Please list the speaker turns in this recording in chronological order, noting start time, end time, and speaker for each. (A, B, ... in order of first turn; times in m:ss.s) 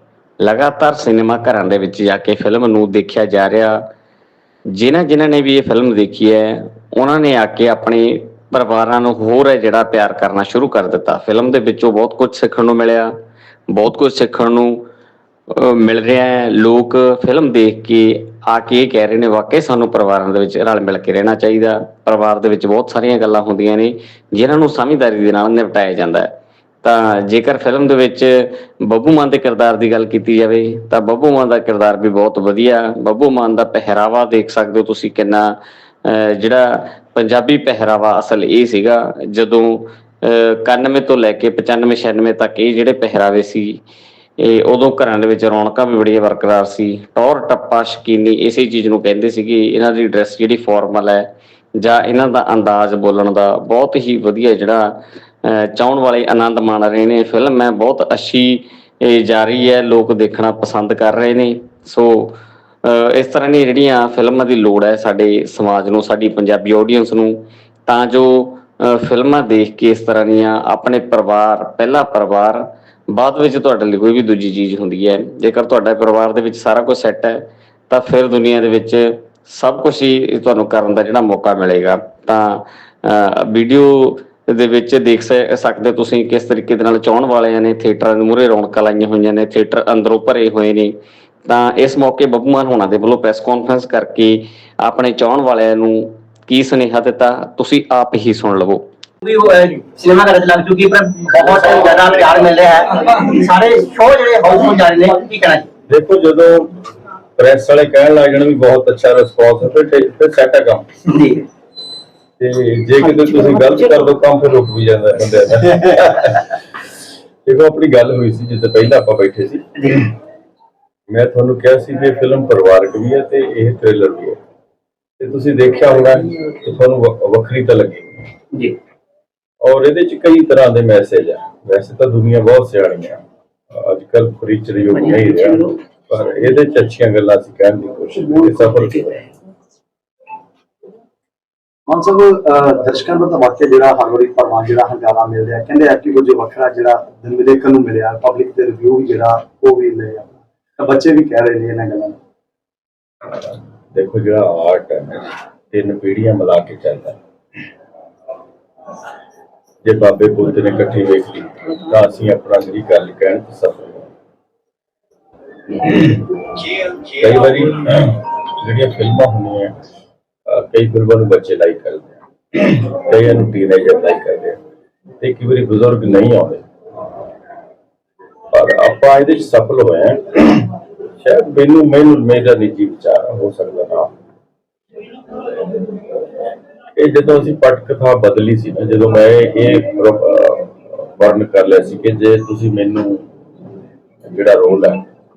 0:00.4-0:03.8 A
0:04.7-0:13.1 A
0:13.7-0:14.8 A
0:15.5-0:26.3 A
0:26.8-0:35.5 A
0:36.0-0:43.8 A
0:44.4-0:54.9 A
0:55.4-1:30.9 A
1:31.5-1:38.8 A
1:39.2-1:45.7 B
1:45.9-1:46.7 C
1:47.4-1:50.9 C
1:51.1-1:51.4 B
1:52.4-1:56.6 C
1:57.4-2:00.1 C
2:01.1-2:04.4 C
2:05.2-2:08.3 C
2:09.6-2:13.2 C
2:13.7-2:19.3 C
2:15.1-2:15.6 B
2:21.9-2:32.2 D
2:33.2-2:37.2 C
2:39.8-2:44.1 C
2:45.7-2:49.8 C
2:50.5-2:54.6 C
2:55.2-2:56.6 C
2:58.5-3:04.2 C
3:07.0-3:13.3 C
3:14.2-3:15.1 C